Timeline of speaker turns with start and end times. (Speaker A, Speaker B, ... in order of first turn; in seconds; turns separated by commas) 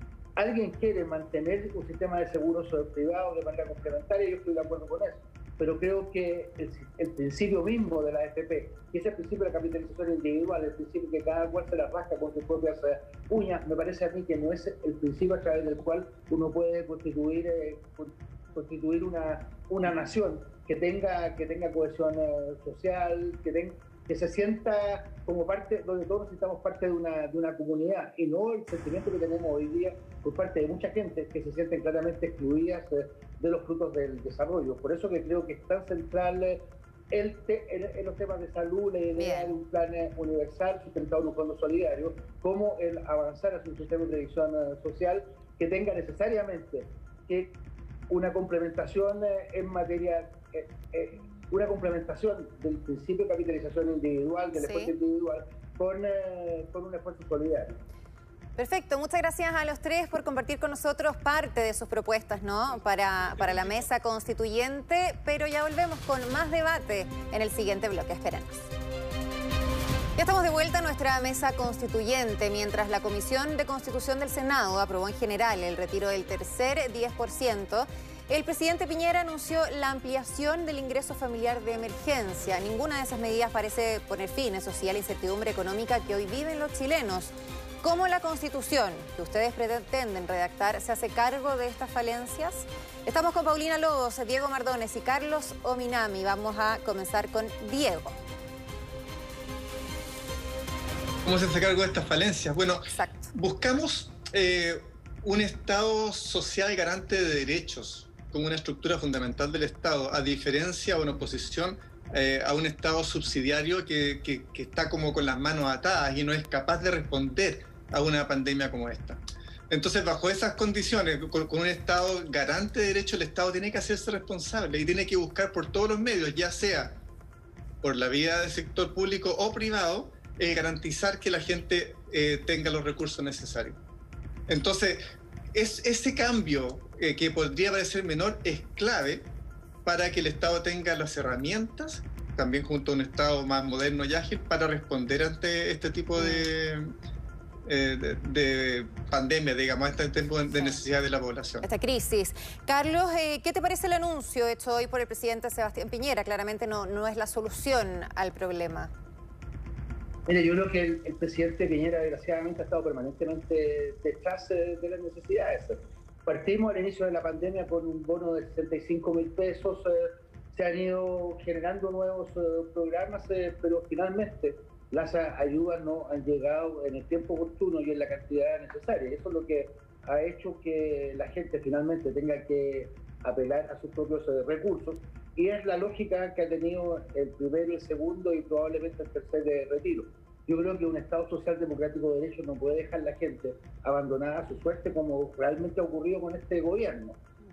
Speaker A: 0.4-57.8, Speaker B: 39.2-39.6, Speaker B: 54.6-54.9, Speaker B: 58.6-68.7, Speaker B: 70.2-98.2, Speaker C: 101.2-127.0, Speaker B: 102.9-103.3, Speaker C: 127.8-133.8, Speaker C: 134.5-135.0, Speaker C: 135.5-139.3, Speaker C: 139.8-146.9, Speaker B: 146.2-146.5, Speaker C: 147.7-151.7, Speaker B: 151.6-158.9, Speaker A: 160.3-197.2